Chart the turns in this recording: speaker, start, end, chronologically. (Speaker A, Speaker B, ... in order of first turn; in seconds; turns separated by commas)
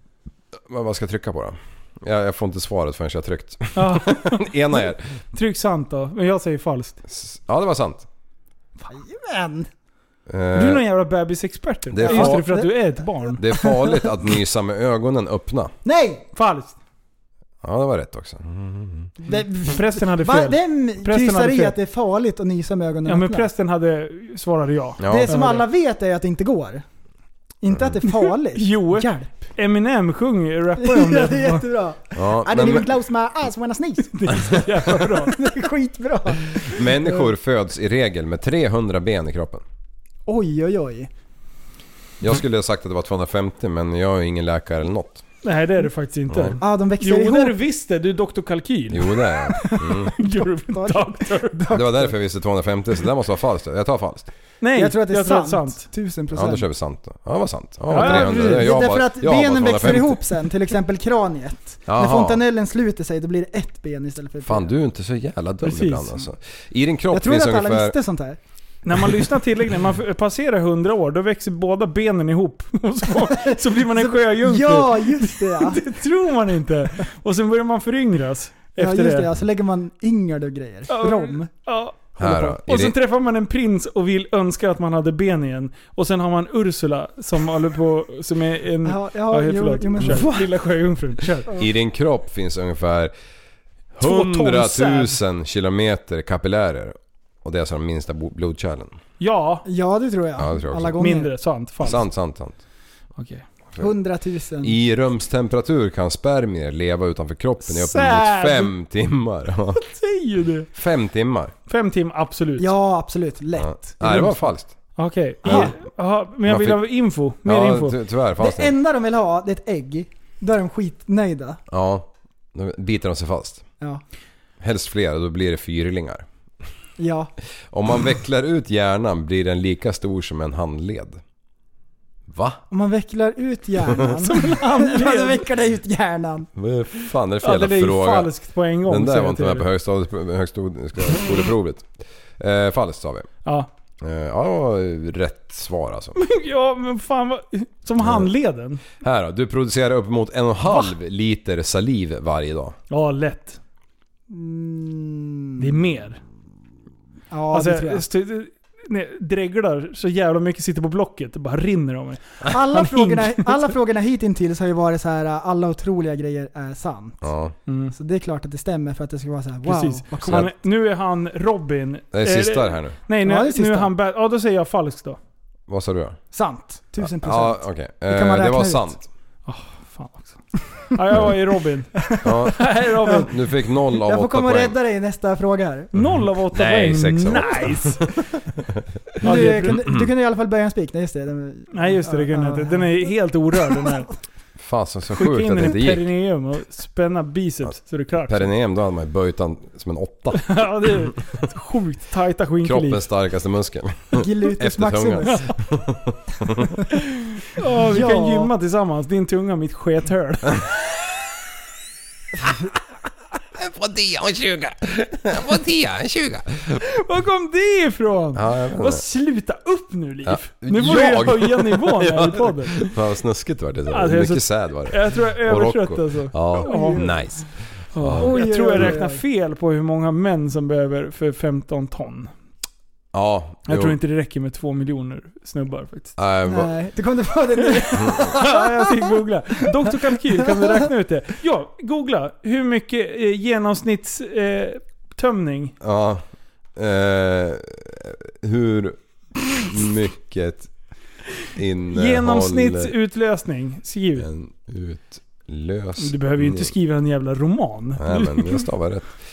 Speaker A: 0.7-5.2, Speaker B: 3.7-4.5, Speaker B: 5.3-7.0, Speaker A: 7.0-8.1, Speaker C: 8.8-9.7, Speaker A: 10.3-10.8, Speaker B: 10.5-13.4, Speaker A: 11.9-12.6, Speaker C: 12.0-14.1, Speaker A: 13.4-15.7, Speaker C: 15.8-16.2, Speaker B: 16.3-16.8, Speaker A: 17.6-19.1, Speaker C: 19.2-23.5, Speaker B: 19.3-21.8, Speaker B: 23.1-25.6, Speaker A: 25.0-25.3, Speaker C: 25.1-26.8, Speaker C: 27.6-29.4, Speaker A: 27.7-28.0, Speaker B: 28.0-31.6, Speaker C: 30.8-34.6, Speaker A: 32.1-32.9, Speaker B: 34.1-35.4, Speaker C: 35.2-37.2, Speaker A: 36.6-39.6, Speaker C: 40.2-41.1, Speaker A: 42.2-45.2, Speaker B: 45.4-51.6, Speaker A: 46.3-46.6, Speaker C: 46.6-47.6, Speaker A: 48.9-50.1, Speaker C: 50.7-52.1, Speaker A: 51.7-54.3, Speaker B: 54.6-55.9, Speaker C: 54.7-56.6, Speaker A: 56.3-60.2, Speaker B: 57.9-58.7, Speaker C: 57.9-64.7, Speaker A: 61.9-62.4, Speaker A: 64.4-68.0, Speaker B: 65.6-66.3, Speaker C: 67.1-68.4, Speaker B: 68.8-79.3, Speaker C: 73.3-75.8, Speaker C: 78.8-81.5, Speaker B: 80.9-91.5, Speaker A: 82.2-83.0, Speaker C: 88.8-90.5, Speaker A: 91.6-93.1, Speaker A: 93.9-99.0, Speaker B: 94.0-95.2, Speaker B: 99.2-99.7, Speaker C: 99.7-101.3, Speaker A: 100.4-101.0, Speaker B: 101.0-102.0, Speaker A: 101.8-102.6, Speaker B: 103.2-103.4, Speaker C: 103.8-104.7, Speaker A: 104.6-109.8, Speaker B: 107.6-108.7, Speaker B: 109.7-110.7, Speaker A: 110.7-111.5, Speaker B: 111.7-112.7, Speaker C: 112.6-114.4, Speaker A: 113.5-114.7, Speaker B: 115.0-118.0, Speaker A: 115.4-115.7, Speaker C: 115.5-115.7, Speaker A: 116.4-116.8, Speaker A: 117.4-118.7, Speaker C: 118.4-121.6, Speaker A: 121.7-123.6, Speaker A: 124.6-126.2, Speaker C: 127.0-127.3, Speaker A: 127.7-131.2, Speaker A: 132.3-132.6, Speaker C: 132.7-136.5, Speaker B: 134.2-135.4, Speaker A: 136.6-138.3, Speaker B: 137.4-139.7, Speaker A: 138.8-143.3, Speaker A: 144.0-146.2, Speaker B: 146.2-148.8, Speaker A: 148.0-148.3, Speaker A: 149.0-152.8, Speaker B: 152.9-153.6, Speaker C: 154.3-155.7, Speaker B: 155.6-156.2, Speaker C: 157.3-158.0, Speaker B: 157.5-163.7, Speaker C: 162.5-167.3, Speaker A: 167.2-167.5, Speaker B: 167.7-167.9, Speaker C: 167.9-170.5, Speaker B: 169.7-175.2, Speaker A: 172.1-173.0, Speaker C: 173.2-173.9, Speaker A: 175.7-176.2, Speaker C: 176.3-178.9, Speaker A: 177.0-179.0, Speaker B: 179.4-181.9, Speaker A: 182.2-182.7, Speaker B: 182.5-183.3, Speaker A: 183.2-184.7, Speaker C: 184.0-185.9, Speaker A: 185.9-188.2, Speaker B: 185.9-188.1, Speaker B: 189.2-189.8, Speaker C: 189.2-193.1, Speaker A: 189.4-190.1, Speaker B: 191.7-194.1, Speaker C: 193.7-194.0, Speaker A: 194.6-196.1, Speaker B: 195.1-198.5, Speaker A: 198.3-201.2, Speaker B: 200.3-203.0, Speaker A: 202.6-206.8, Speaker C: 204.1-205.5, Speaker B: 207.5-210.6, Speaker C: 207.8-208.5, Speaker A: 213.5-216.8, Speaker B: 216.8-222.9, Speaker A: 218.3-219.0, Speaker A: 220.2-228.9, Speaker B: 223.9-227.3, Speaker C: 226.6-227.4, Speaker B: 227.9-232.3, Speaker C: 228.2-229.2, Speaker A: 233.1-234.0, Speaker B: 233.7-236.1, Speaker A: 236.2-236.7, Speaker C: 236.5-238.9, Speaker B: 237.8-245.7, Speaker A: 238.0-238.3, Speaker A: 245.8-246.2, Speaker A: 246.8-249.0, Speaker A: 249.5-250.7, Speaker A: 251.6-252.9, Speaker B: 251.9-254.3, Speaker A: 254.2-256.7, Speaker B: 256.0-258.7, Speaker A: 258.0-259.1